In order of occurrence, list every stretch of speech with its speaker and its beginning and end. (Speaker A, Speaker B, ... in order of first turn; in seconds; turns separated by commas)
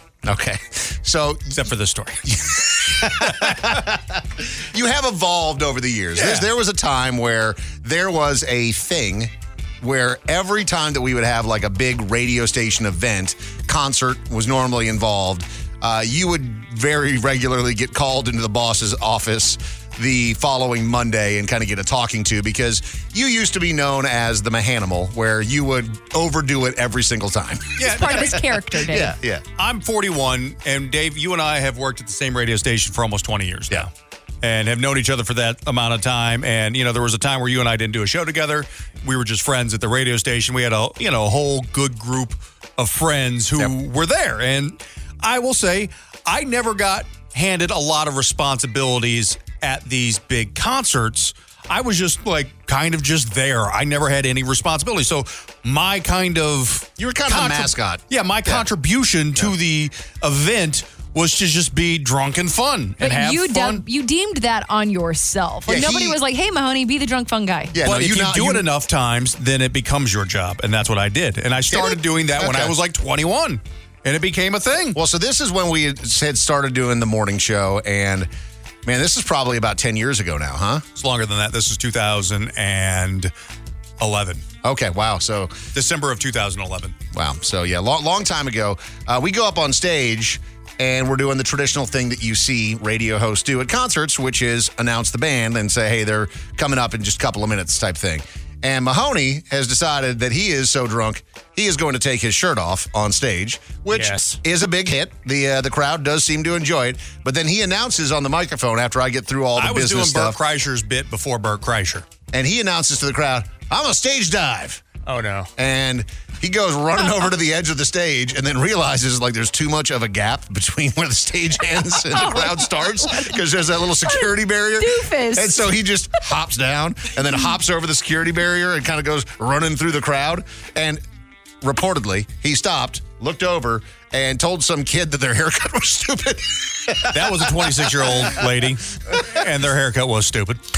Speaker A: 0.2-1.6, Speaker B: 1.5-2.2, Speaker A: 2.3-29.4, Speaker B: 6.2-6.5, Speaker B: 27.8-28.4, Speaker C: 27.8-29.1, Speaker B: 29.6-33.9, Speaker B: 34.4-63.8, Speaker A: 57.0-58.6, Speaker C: 63.0-67.8, Speaker A: 65.7-66.2, Speaker A: 67.7-68.6, Speaker B: 67.8-75.0, Speaker A: 71.7-72.8, Speaker A: 74.9-78.3, Speaker A: 78.8-80.8, Speaker B: 81.0-83.3, Speaker B: 84.0-84.4, Speaker A: 84.6-85.6, Speaker B: 85.7-87.0, Speaker A: 87.1-110.4, Speaker B: 103.9-104.3, Speaker B: 109.6-112.0, Speaker A: 112.3-114.8, Speaker B: 115.1-115.5, Speaker A: 115.6-131.0, Speaker C: 122.1-123.3, Speaker C: 124.0-125.6, Speaker A: 131.6-138.3, Speaker B: 137.1-140.6